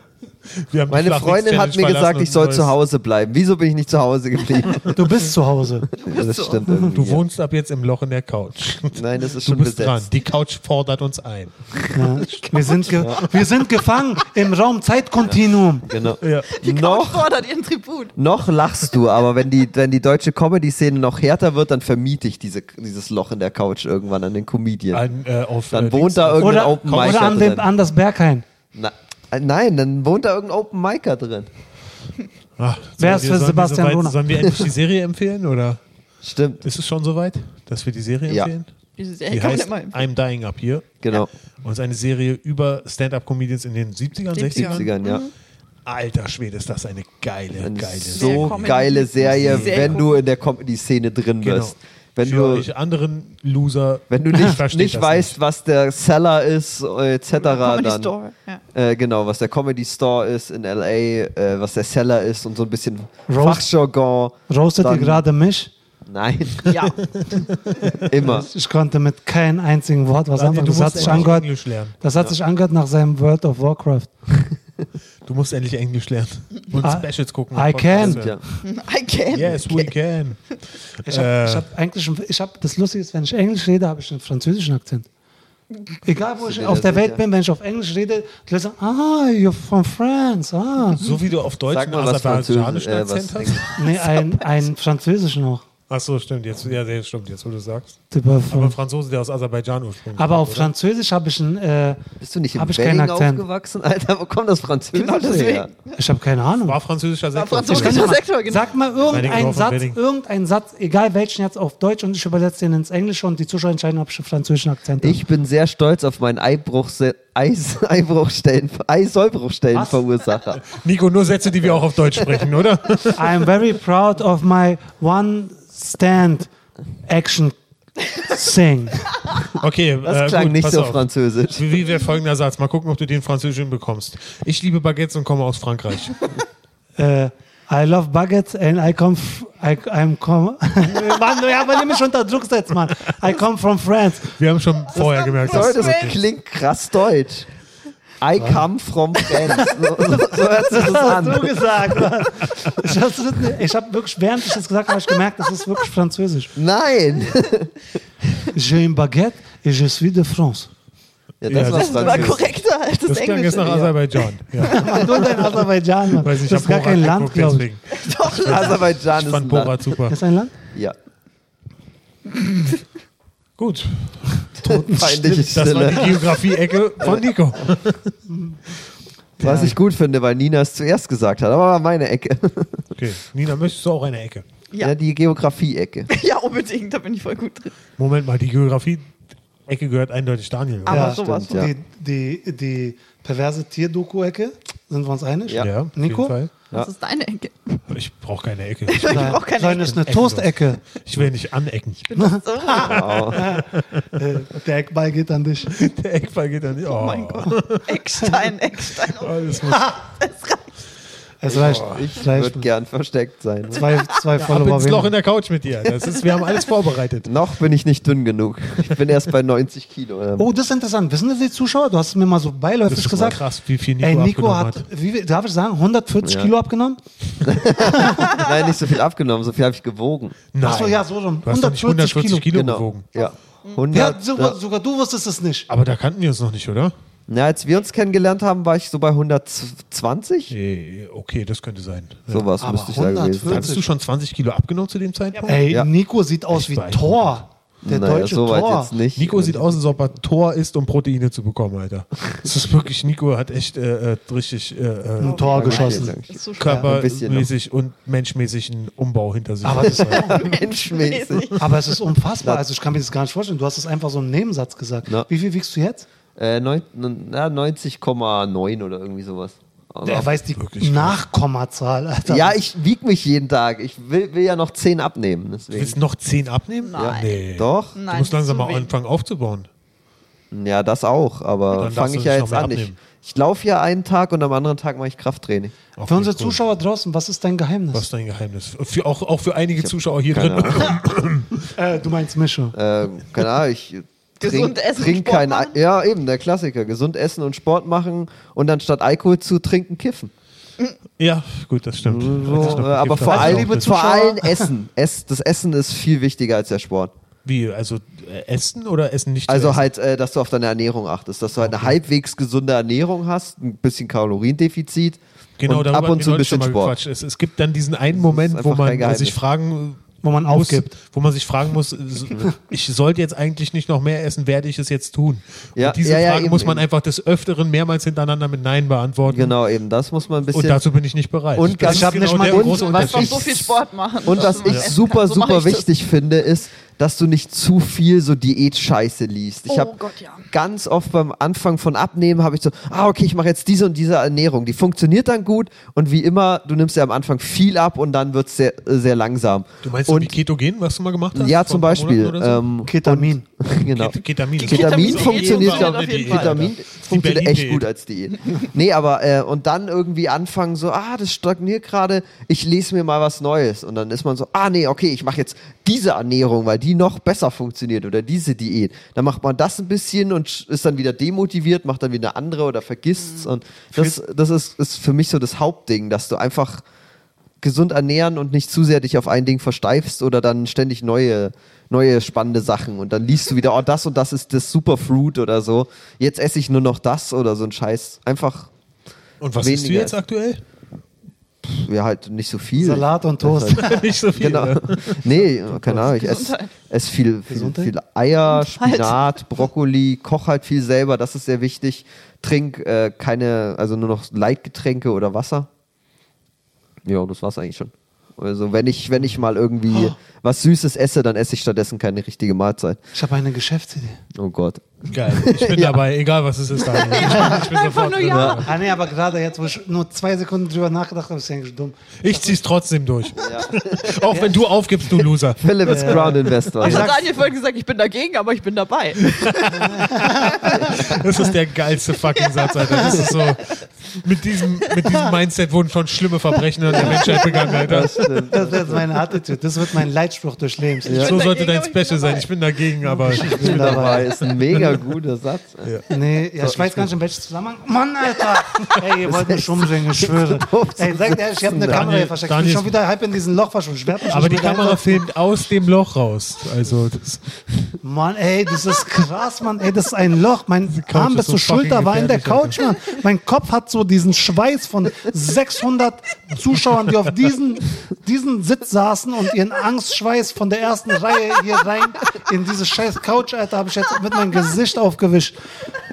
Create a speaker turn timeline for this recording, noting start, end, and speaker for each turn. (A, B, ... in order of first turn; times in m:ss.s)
0:00.5-0:02.7 A
0:00.9-0:05.1 B
0:04.9-0:05.9 C
0:06.0-0:06.9 D
0:06.0-0:07.2 B
0:06.7-0:07.0 C
0:06.9-0:11.7 A
0:08.9-0:10.1 B
0:11.9-0:15.9 C
0:12.9-0:13.2 B
0:15.2-0:17.2 B
0:16.2-0:16.5 A
0:16.5-0:18.1 D
0:18.1-0:25.0 B
0:24.9-0:27.2 A
0:25.7-0:27.7 B
0:26.4-0:28.4 C
0:28.7-0:31.5 B
0:32.6-0:35.8 A
0:33.0-0:34.2 C
0:36.2-0:36.6 B
0:36.6-0:38.7 A
0:38.3-0:38.5 B
0:39.0-0:40.0 D
0:39.3-0:41.0 A
0:41.0-0:41.3 B
0:41.6-0:44.8 A
0:44.3-0:45.3 D
0:44.5-0:45.2 B
0:45.8-0:50.0 A
0:47.6-0:52.7 B
0:48.1-0:50.2 D
0:51.4-0:55.4 A
0:54.1-0:58.1 B
0:57.4-0:58.6 D
0:58.7-1:05.2 B
1:03.3-1:03.7 C
1:04.5-1:05.7 C
1:06.0-1:07.1 B
1:06.6-1:07.0 D
1:07.3-1:08.0 A
1:08.0-1:08.5 B
1:08.2-1:11.5 C
1:10.4-1:11.9 A
1:11.0-1:11.2 B
1:12.0-1:14.1 C
1:15.2-1:18.4 A
1:16.8-1:18.4 C
1:17.9-1:18.4 B
1:18.6-1:19.9 D
1:19.3-1:21.6 A
1:21.0-1:25.1 C
1:26.0-1:31.1 C
1:26.4-1:27.2 B
1:30.9-1:33.9 A
1:31.7-1:34.2 B
1:33.8-1:35.6 C
1:35.9-1:38.0 A
1:38.1-1:38.8 C
1:38.5-1:40.7 A
1:40.2-1:42.0 C
1:42.2-1:45.7 B
1:42.6-1:43.4 C
1:44.9-1:46.0 D
1:46.0-1:46.8 C
1:46.6-1:48.2 A
1:47.3-1:48.7 D
1:47.6-1:55.2 C
1:49.1-1:50.0 A
1:55.0-2:00.7 B
1:59.7-2:00.0 C
2:00.6-2:03.3 A
2:01.6-2:02.5 B
2:03.1-2:06.5 C
2:07.0-2:07.6 C
2:08.1-2:09.2 C
2:09.5-2:16.3 A
2:10.0-2:11.8 B
2:17.0-2:24.3 C
2:24.3-2:26.2 A
2:24.9-2:26.2 D
2:24.9-2:27.5 B
2:28.2-2:31.7 B
2:28.4-2:28.6 C
2:29.6-2:36.5 C
2:36.6-2:37.7 B
2:38.5-2:40.7 C
2:41.4-2:42.5 B
2:41.5-2:42.4 A
2:41.5-2:43.9 D
2:43.1-2:45.0 A
2:43.6-2:43.9 B
2:44.6-2:45.0 D
2:44.7-2:47.7 C
2:46.2-2:50.2 A
2:47.9-2:48.8 D
2:48.3-2:49.9 B
2:50.1-2:50.5 C
2:53.6-2:54.4 A
2:54.5-2:56.1 C
2:54.6-2:56.4 B
2:55.2-2:58.1 A
2:58.3-2:58.5 C
2:59.4-2:59.8 C
2:59.4-3:02.9 B
2:59.4-2:59.8 A
3:03.0-3:04.4 A
3:04.8-3:06.1 B
3:06.1-3:07.8 D
3:08.0-3:09.1 A
3:09.6-3:11.1 A
3:10.8-3:11.7 D
3:10.9-3:16.3 C
3:11.1-3:11.7 B
3:15.6-3:16.5 A
3:16.7-3:17.8 D
3:17.9-3:22.0 A
3:18.9-3:20.0 D
3:19.0-3:20.8 C
3:22.0-3:23.2 D
3:22.2-3:25.8 C
3:22.7-3:23.5 B
3:23.3-3:24.0 A
3:25.8-3:27.9 A
3:26.8-3:30.7 D
3:29.2-3:30.0 A
3:31.4-3:32.7 C
3:31.5-3:33.9 B
3:31.5-3:32.0 A
3:33.7-3:35.1 C
3:34.4-3:37.3 A
3:36.2-3:36.6 D
3:37.2-3:40.5 B
3:40.4-3:43.4 C
3:42.9-3:44.8 A
3:44.0-3:47.0 C
3:46.2-3:46.5 B
3:47.4-3:50.4 B
3:47.8-3:48.4 C
3:50.5-3:53.1 A
3:50.6-3:52.5 C
3:52.5-3:54.6 B
3:53.2-3:53.8 D
3:53.9-3:55.7 C
3:55.7-3:56.9 A
3:57.3-4:00.5 B
4:00.5-4:02.5 A
4:02.3-4:03.7 B
4:02.6-4:03.8 C
4:03.4-4:05.7 A
4:05.3-4:05.6 D
4:05.4-4:08.9 C
4:06.5-4:07.4 A
4:07.8-4:10.1 B
4:09.2-4:15.5 A
4:15.2-4:16.1 C
4:15.2-4:16.9 D
4:15.3-4:17.5 B
4:16.6-4:20.4 A
4:19.6-4:20.4 C
4:19.8-4:21.6 B
4:20.2-4:21.6 D
4:21.6-4:26.0 C
4:26.4-4:30.3 B
4:30.0-4:32.6 C
4:30.6-4:31.2 A
4:32.3-4:36.0 B
4:35.7-4:39.7 A
4:36.8-4:37.4 D
4:37.0-4:37.9 B
4:37.9-4:38.9 D
4:40.5-4:45.7 B
4:41.7-4:42.9 A
4:46.0-4:46.6 A
4:46.0-4:48.1 C
4:47.9-4:51.7 A
4:49.8-4:51.0 B
4:51.7-4:52.7 C
4:52.7-5:00.3 B
4:54.4-4:55.8 D
5:01.2-5:03.9 A
5:02.0-5:07.1 B
5:02.6-5:04.7 C
5:07.4-5:09.8 A
5:09.5-5:17.0 B
5:11.6-5:12.0 A
5:15.6-5:29.5 A
5:18.1-5:19.4 B
5:20.2-5:20.9 C
5:25.8-5:26.8 B
5:29.3-5:30.8 B
5:30.5-5:33.7 A
5:31.5-5:33.7 B
5:31.8-5:33.1 C
5:32.7-5:35.9 D
5:34.2-5:39.9 B
5:34.6-5:34.9 A
5:39.7-5:40.5 D
5:40.5-5:50.3 B
5:49.8-5:52.7 A
5:51.3-6:16.8 B
5:52.8-5:53.4 C
5:53.9-5:57.8 A
5:54.6-5:56.6 D
6:17.6-6:28.7 B
6:29.4-6:30.6 A
6:29.6-6:30.1 B
6:31.6-6:45.7 B
6:32.8-6:34.1 C
6:33.8-6:35.2 A
6:35.8-6:36.1 C
6:36.0-6:36.7 D
6:37.5-6:37.9 C
6:38.5-6:39.4 D
6:47.0-6:53.0 B
6:53.1-6:54.2 C
6:54.3-6:56.0 B
6:55.1-6:58.7 A
6:56.8-6:57.6 B
6:57.0-6:58.7 D
6:58.2-6:58.6 B
6:58.6-7:02.6 C
7:02.2-7:07.1 A
7:03.4-7:04.2 B
7:04.3-7:04.6 C
7:05.6-7:07.1 B
7:05.8-7:07.3 C
7:06.8-7:11.0 D
7:09.3-7:18.3 A
7:09.8-7:10.5 C
7:12.4-7:13.8 D
7:16.9-7:19.1 B
7:17.0-7:17.7 D
7:18.5-7:21.3 C
7:21.0-7:21.4 B
7:21.1-7:25.0 A
7:21.1-7:22.5 D
7:23.0-7:25.0 C
7:23.4-7:26.0 B
7:26.1-7:35.2 C
7:26.6-7:26.9 B
7:26.7-7:27.0 A
7:29.2-7:32.1 B
7:31.8-7:32.9 A
7:34.2-7:37.5 A
7:38.0-7:55.5 C
7:40.9-7:42.8 A